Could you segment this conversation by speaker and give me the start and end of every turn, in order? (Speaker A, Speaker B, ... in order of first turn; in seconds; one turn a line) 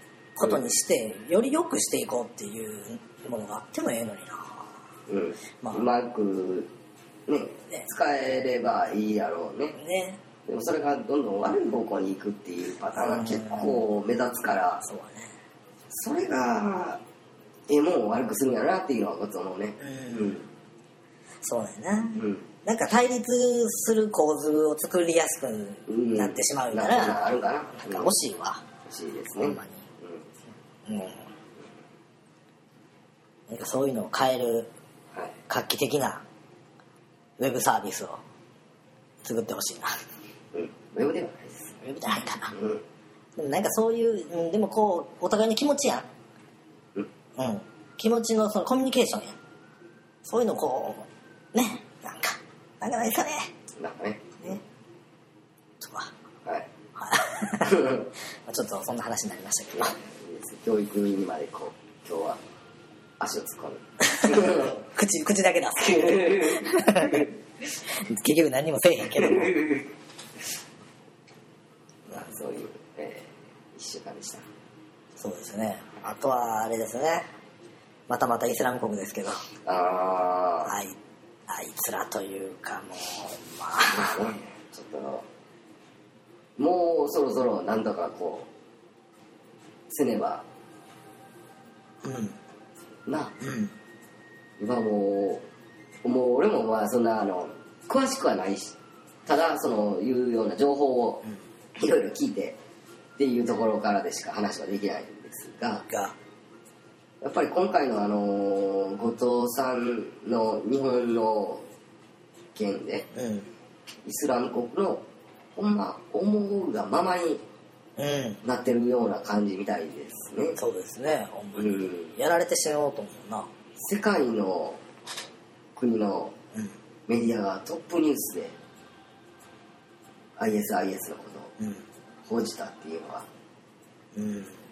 Speaker A: 0.3-4.8
Speaker B: 5.1-6.7
Speaker B: 7.3-9.8
Speaker A: 9.8-10.2
Speaker B: 10.4-14.8
Speaker A: 12.9-13.8
Speaker A: 14.8-15.3
Speaker B: 15.9-17.0
Speaker B: 17.7-20.5
Speaker A: 19.8-20.4
Speaker A: 21.4-28.6
Speaker B: 22.1-22.4
Speaker B: 25.9-28.1
Speaker B: 28.9-30.2
Speaker A: 29.4-29.9
Speaker A: 30.9-31.2
Speaker A: 33.5-34.7
Speaker A: 35.5-36.2
Speaker A: 37.4-38.2
Speaker A: 39.2-39.9
Speaker B: 40.5-41.8
Speaker A: 41.8-42.5
Speaker B: 42.5-42.8
Speaker A: 43.4-46.1
Speaker A: 47.4-49.4
Speaker A: 50.2-53.5
Speaker B: 53.8-54.5
Speaker A: 55.8-56.1
Speaker A: 57.0-57.9
Speaker B: 57.6-58.1
Speaker A: 58.5-60.0
Speaker B: 59.8-62.4
Speaker B: 63.2-64.8
Speaker A: 64.1-67.3
Speaker B: 65.8-67.3
Speaker A: 67.8-69.6
Speaker B: 69.1-69.9
Speaker B: 72.1-74.4
Speaker A: 75.2-77.3
Speaker A: 78.1-79.4
Speaker B: 79.7-80.7
Speaker A: 80.6-81.0
Speaker A: 81.5-84.2
Speaker B: 83.8-85.2
Speaker B: 86.6-88.5
Speaker B: 89.9-90.4
Speaker A: 92.0-92.4
Speaker B: 93.1-93.3
Speaker A: 93.4-93.7
Speaker B: 94.6-95.4
Speaker B: 96.0-101.2
Speaker B: 101.8-102.6
Speaker B: 103.2-105.8
Speaker A: 105.8-106.2
Speaker B: 107.2-111.6
Speaker B: 112.5-113.1
Speaker A: 113.1-113.5
Speaker B: 114.0-115.0
Speaker B: 115.5-117.4
Speaker A: 118.0-118.4
Speaker B: 118.4-120.6
Speaker A: 120.6-123.5
Speaker B: 121.6-122.2
Speaker B: 123.8-124.8
Speaker B: 125.7-126.3
Speaker B: 127.1-128.6
Speaker B: 130.4-131.5
Speaker A: 131.6-131.8
Speaker B: 132.3-133.2
Speaker A: 134.1-134.6